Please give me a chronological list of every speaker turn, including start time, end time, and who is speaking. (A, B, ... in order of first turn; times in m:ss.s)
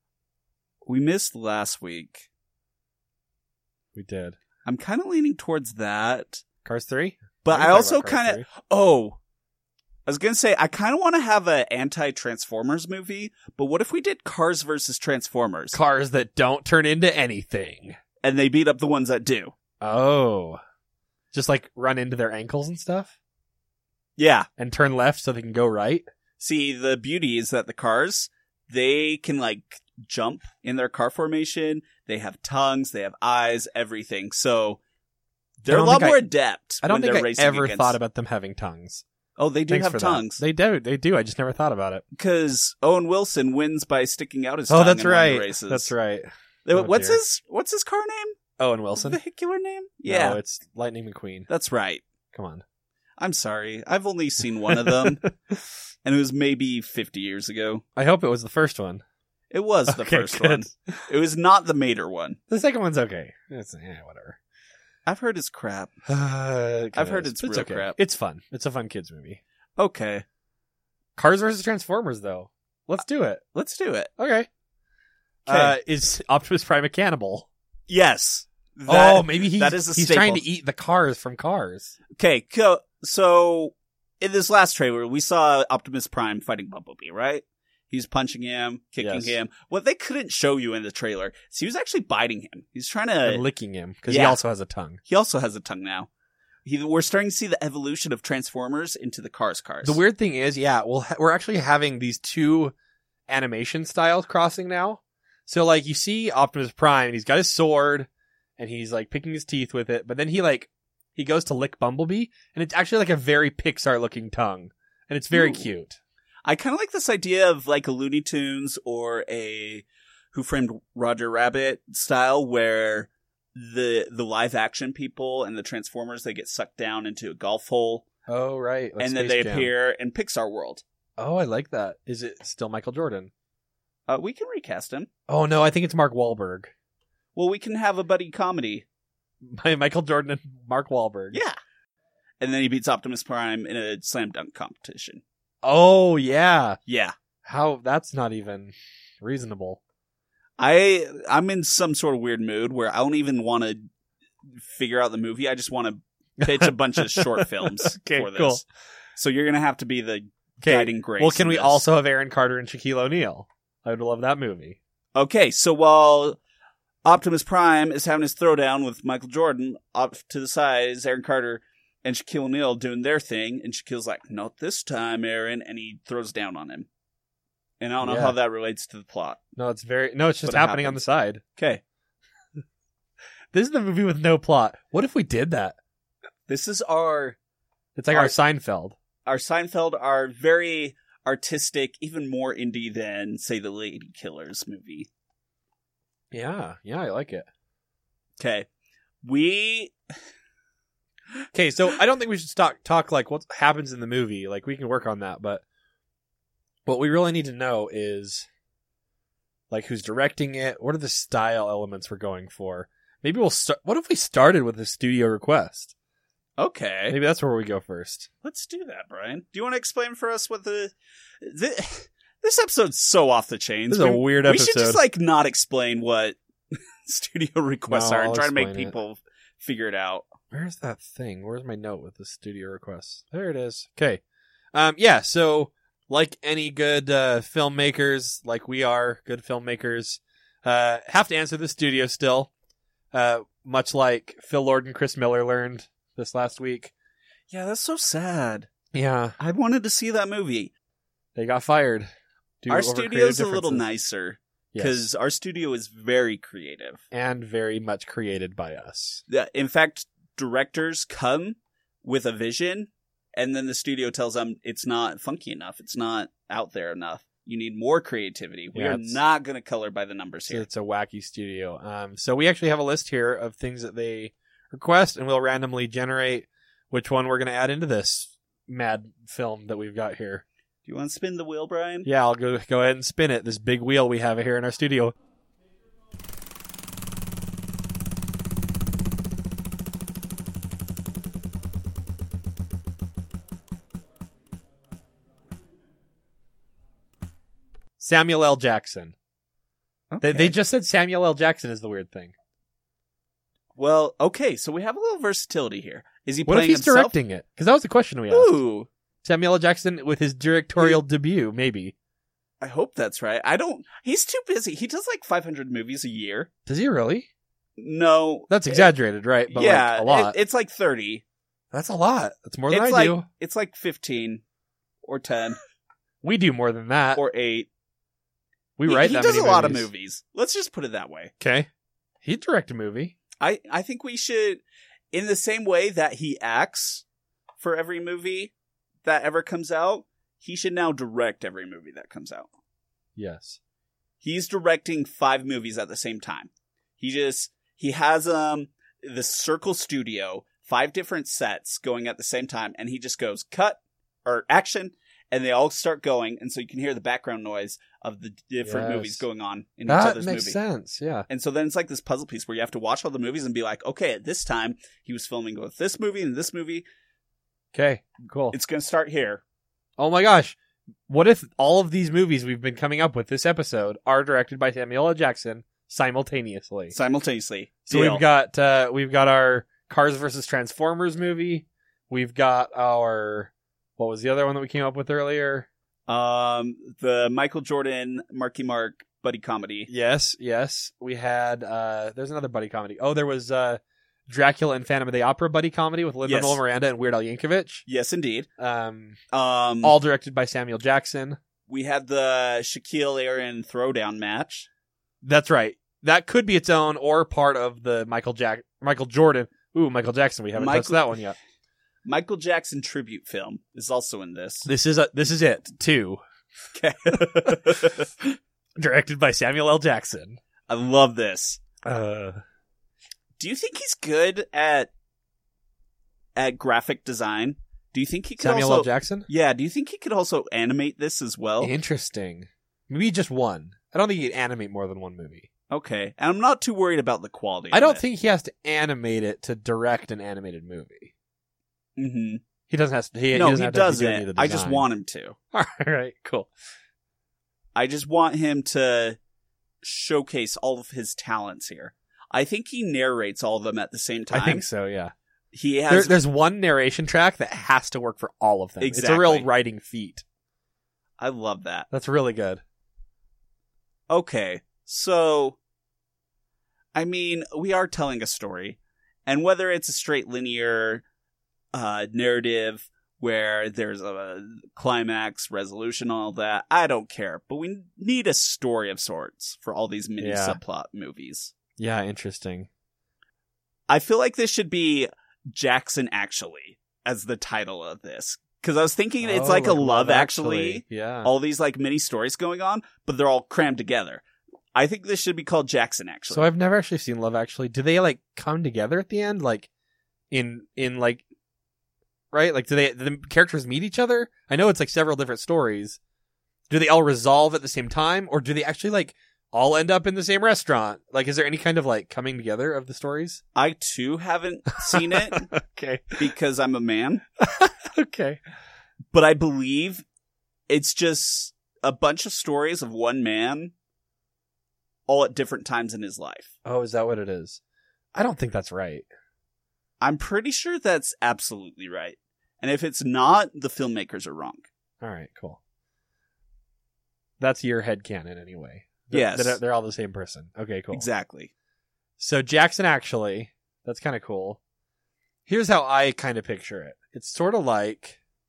0:00.8-0:02.3 A
0:03.9-0:04.4 B
0:04.6-0:06.4 A
0:06.6-0:08.4 B
0:07.4-0:09.2 A
0:10.0-0:15.8 A
0:15.7-0:18.0 B
0:18.2-0:19.5 A
0:19.8-0:20.6 B
0:21.3-0:23.1 B
0:24.2-0:24.5 A
0:24.6-0:26.0 B
0:26.4-0:34.8 A
0:35.6-0:38.0 A
0:35.7-0:36.2 B
0:36.8-0:39.0 B
0:39.4-0:40.4 A
0:39.7-0:42.0 B
0:42.1-0:45.9 A
0:44.7-0:47.2 B
0:46.6-0:48.4 A
0:48.6-0:49.2 B
0:49.0-0:50.4 A
0:50.0-0:51.5 B
0:51.5-0:52.0 A
0:52.3-0:52.6 B
0:53.2-0:55.2 A
0:54.7-0:55.3 B
0:56.0-0:57.8 A
0:58.0-0:59.0 B
0:59.5-1:02.4 A
0:59.9-1:01.0 B
1:02.5-1:04.4 B
1:05.0-1:06.0 A
1:06.1-1:09.4 B
1:06.9-1:08.0 A
1:09.8-1:10.2 A
1:11.2-1:13.4 B
1:13.5-1:14.1 A
1:14.2-1:14.5 B
1:15.4-1:15.8 A
1:15.5-1:17.5 B
1:17.9-1:20.4 A
1:18.9-1:22.0 B
1:22.2-1:33.4 A
1:29.0-1:29.4 B
1:33.2-1:35.0 B
1:34.1-1:34.4 A
1:35.1-1:36.1 A
1:36.6-1:40.0 A
1:39.8-1:42.7 B
1:43.3-1:56.0 B
1:55.3-1:55.6 A
1:56.4-2:08.0 A
2:08.3-2:09.7 B
2:09.0-2:10.8 A
2:11.2-2:13.3 B
2:14.1-2:15.1 A
2:15.3-2:16.7 B
2:17.4-2:18.8 A
2:19.4-2:21.4 B
2:22.4-2:25.2 A
2:25.6-2:26.8 B
2:26.8-2:27.1 A
2:27.4-2:29.8 B
2:30.6-2:33.9 A
2:34.4-2:38.6 A
2:36.4-2:38.6 B
2:39.2-2:41.8 A
2:40.6-2:44.8 B
2:45.1-2:46.4 A
2:47.0-2:56.9 A
2:57.8-2:59.4 A
2:58.0-2:58.4 B
2:59.6-3:01.4 B
3:00.4-3:01.0 A
3:01.6-3:01.8 A
3:03.5-3:05.8 B
3:06.5-3:07.4 A
3:08.0-3:09.0 B
3:09.2-3:15.1 A
3:16.3-3:17.5 B
3:18.4-3:18.7 A
3:19.2-3:19.9 A
3:21.5-3:25.6 B
3:26.8-3:28.5 B
3:29.7-3:35.9 B
3:36.6-3:37.2 A
3:37.1-3:38.3 B
3:38.4-3:46.4 A
3:43.9-3:45.0 B
3:47.0-3:50.2 A
3:47.9-3:49.0 B
3:50.5-3:54.2 B
3:54.7-4:02.5 B
4:03.1-4:06.9 B
4:07.5-4:08.7 A
4:08.9-4:09.4 B
4:09.4-4:10.7 A
4:11.3-4:12.1 B
4:12.6-4:13.8 B
4:12.7-4:17.0 A
4:14.7-4:15.1 B
4:17.1-4:19.2 B
4:19.3-4:30.7 A
4:28.7-4:29.2 B
4:30.5-4:40.4 B
4:40.8-4:42.1 A
4:42.0-4:45.1 B
4:58.0-4:59.1 B
5:00.1-5:00.6 A
5:00.2-5:02.3 B
5:03.8-5:07.1 A
5:06.4-5:08.6 B
5:08.3-5:08.9 A
5:09.2-5:11.9 B
5:12.6-5:16.5 A
5:16.6-5:17.3 B
5:17.8-5:18.9 A
5:18.5-5:20.3 B
5:19.5-5:21.2 A
5:21.7-5:23.2 B
5:22.7-5:24.4 A
5:25.0-5:25.6 A
5:26.2-5:27.2 B
5:27.1-5:27.7 A
5:28.8-5:29.9 B
5:28.8-5:31.3 A
5:31.4-5:31.7 B
5:32.2-5:33.2 B
5:33.4-5:37.0 A
5:37.6-5:38.5 A
5:39.0-5:42.5 A
5:43.2-5:43.6 B
5:44.2-6:00.6 A
5:58.6-5:59.2 B
5:59.8-6:01.3 B
6:01.3-6:06.8 A
6:07.7-6:08.5 B
6:08.5-6:09.4 A
6:10.0-6:10.6 B
6:11.1-6:16.9 B
6:16.9-6:18.2 A
6:17.9-6:25.7 B
6:26.1-6:29.9 A
6:29.9-6:37.8 B
6:36.2-6:36.6 A
6:37.8-6:38.5 A
6:38.6-6:39.2 B
6:39.3-6:39.9 A
6:39.8-6:41.4 B
6:41.7-6:44.7 A
6:45.2-6:51.4 B
6:50.5-6:51.2 A
6:52.0-6:54.7 A
6:54.6-6:56.2 B
6:56.7-6:58.1 A
6:57.1-6:57.9 B
6:58.8-7:00.4 B
7:00.7-7:01.6 A
7:01.8-7:02.4 B
7:03.4-7:04.9 A
7:06.4-7:11.7 A
7:08.4-7:09.3 B
7:11.6-7:15.5 B
7:15.7-7:18.0 A
7:17.7-7:21.1 B
7:22.0-7:22.4 A
7:22.7-7:24.8 B
7:23.3-7:25.4 A
7:25.5-7:26.5 B
7:27.7-7:29.2 A
7:29.8-7:34.6 A
7:34.3-7:35.1 B
7:35.5-7:36.2 A
7:35.9-7:40.2 B
7:38.8-7:39.5 A
7:41.2-7:41.9 A
7:41.9-7:42.6 B
7:44.1-7:45.6 A
7:46.9-7:51.0 A
7:51.7-8:01.5 A
8:00.2-8:00.6 B
8:01.8-8:02.7 B
8:03.9-8:14.2 A
8:09.2-8:11.3 B
8:14.7-8:16.5 A
8:16.3-8:19.7 B
8:20.3-8:21.2 B
8:22.3-8:26.0 B
8:26.7-8:33.4 B
8:33.6-8:35.5 A
8:34.8-8:36.3 B
8:36.2-8:37.2 A
8:37.4-8:38.4 B
8:39.1-8:40.0 A
8:40.7-8:43.7 A
8:45.1-8:46.5 A
8:46.6-8:47.6 B
8:48.1-8:49.1 B
8:50.0-8:54.7 A
8:55.0-8:55.6 B
8:57.4-9:01.1 B
8:59.1-8:59.6 A
9:00.9-9:01.5 A
9:02.2-9:04.6 B
9:05.5-9:08.2 B